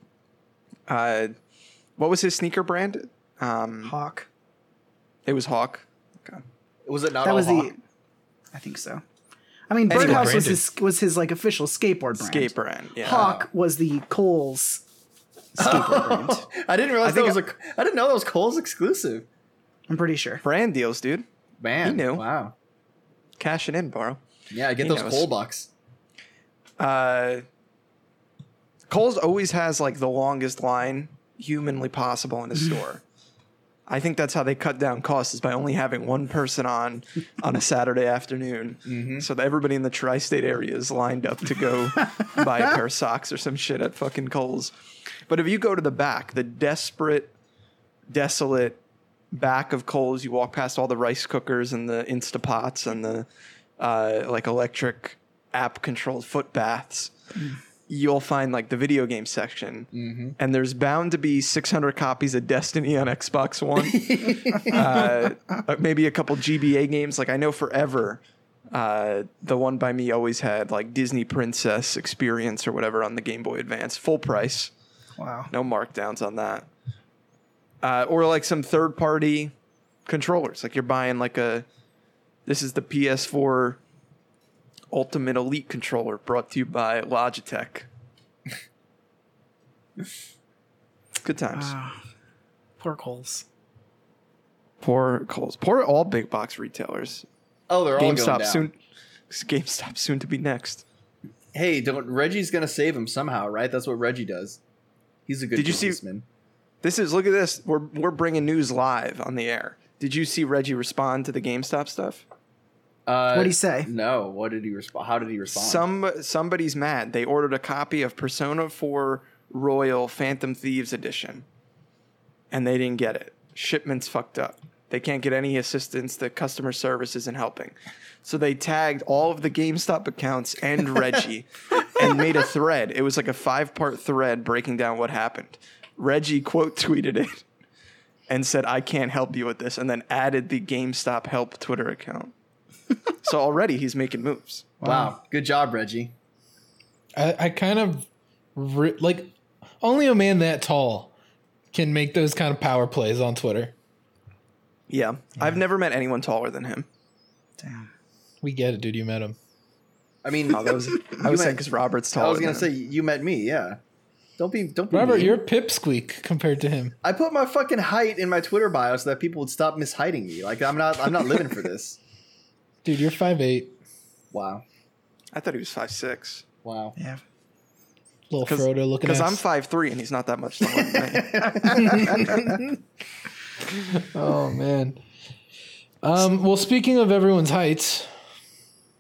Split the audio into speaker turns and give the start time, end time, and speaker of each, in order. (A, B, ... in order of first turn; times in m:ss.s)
0:00.9-0:01.3 A
0:02.0-0:03.9 A
0:03.8-0:04.3 B
0:05.2-0:06.4 A
0:06.9-0:07.7 C
0:07.2-0:07.8 B
0:08.5-0:09.0 B
0:09.7-0:14.8 B
0:09.9-0:10.6 D
0:09.9-0:10.3 A
0:12.2-0:13.3 A
0:13.1-0:13.5 C
0:15.6-0:16.4 B
0:15.6-0:19.3 C
0:17.0-0:17.4 A
0:19.9-0:20.4 B
0:20.4-0:21.3 A
0:21.6-0:22.6 C
0:21.8-0:22.2 A
0:23.4-0:24.2 A
0:24.5-0:25.7 C
0:24.8-0:25.3 A
0:26.8-0:27.4 A
0:28.9-0:33.0 A
0:33.9-0:44.7 A
0:38.9-0:39.3 C
0:45.3-0:47.3 A
0:48.1-0:48.8 A
0:49.3-0:53.3 A
0:53.8-0:57.1 A
0:57.9-1:08.2 A
0:59.9-1:00.4 C
1:03.9-1:05.0 C
1:08.7-1:14.7 A
1:15.2-1:15.5 B
1:15.5-1:16.7 A
1:17.8-1:19.5 A
1:20.1-1:21.7 A
1:22.5-1:23.8 A
1:24.9-1:27.9 A
1:31.2-1:31.8 A
1:31.5-1:32.0 B
1:32.8-1:33.4 B
1:34.8-1:37.3 A
1:37.7-1:38.7 C
1:38.0-1:38.8 A
1:39.3-1:40.8 A
1:41.5-1:44.6 C
1:45.3-1:46.2 C
1:45.6-1:46.0 A
1:46.8-1:52.2 A
1:53.1-1:55.8 C
1:53.3-1:53.9 B
1:55.5-2:01.4 A
2:02.5-2:17.4 A
2:18.3-2:22.3 A
2:23.2-2:24.8 A
2:24.8-2:25.1 B
2:24.8-2:26.1 C
2:27.2-2:31.1 D
2:31.7-2:33.7 D
2:34.9-2:36.9 A
2:37.6-2:37.9 B
2:38.4-2:39.4 D
2:40.2-2:41.6 C
2:40.5-2:42.7 A
2:42.1-2:43.8 C
2:44.4-2:45.4 C
2:44.9-2:47.0 D
2:47.0-2:52.0 C
2:52.8-2:53.8 D
2:54.3-2:54.6 C
2:55.3-2:56.4 A
2:56.6-2:57.0 C
2:58.3-2:59.4 D
2:58.4-3:02.1 A
3:01.0-3:02.2 C
3:03.9-3:05.0 D
3:06.0-3:08.1 D